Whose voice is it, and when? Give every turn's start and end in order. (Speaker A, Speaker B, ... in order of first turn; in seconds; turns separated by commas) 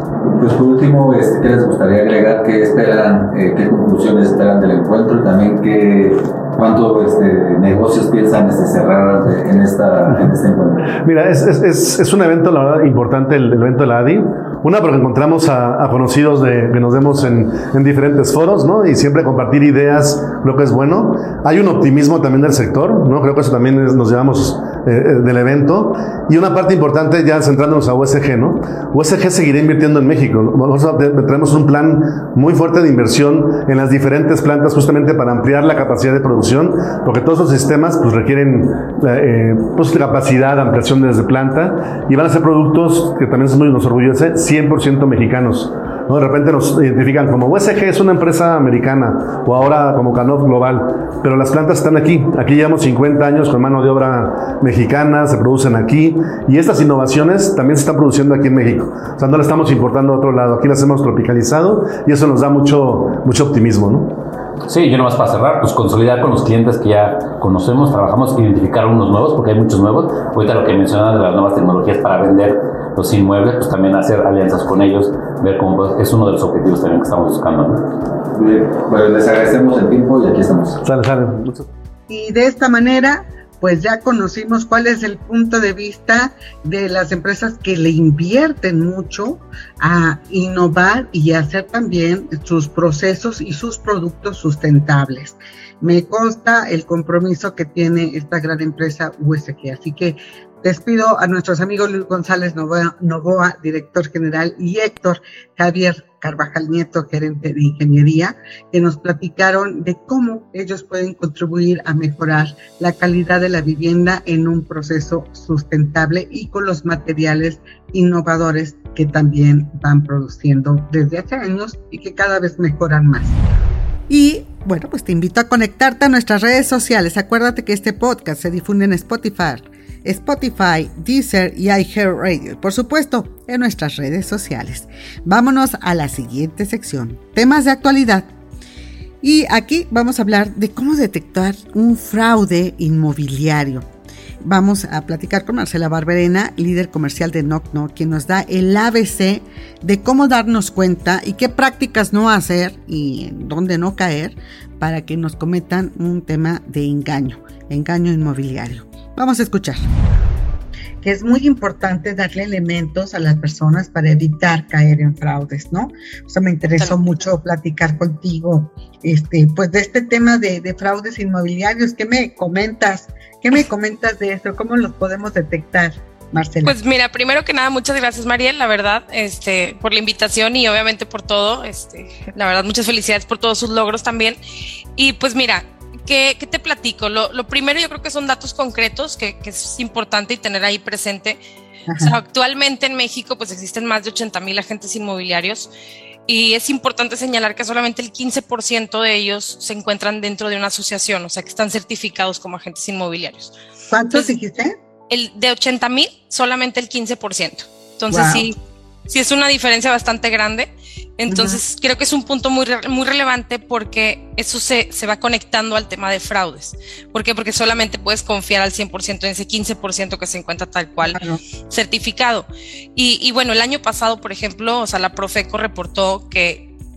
Speaker A: 0.3-10.9, Speaker B: 11.0-64.2, Speaker C: 64.7-77.9, Speaker A: 78.3-80.8, Speaker B: 80.8-81.7, Speaker D: 82.1-123.3, Speaker D: 124.1-138.3, Speaker D: 139.2-143.9, Speaker D: 144.4-159.9, Speaker D: 161.0-176.8, Speaker E: 176.6-184.4, Speaker E: 185.0-191.4, Speaker D: 191.9-192.1, Speaker E: 192.0-195.7, Speaker E: 196.3-203.6, Speaker D: 203.9-204.7, Speaker E: 205.1-208.6, Speaker D: 208.1-208.5, Speaker E: 209.1-221.2, Speaker D: 211.3-211.6, Speaker D: 221.0-221.4, Speaker E: 221.7-226.7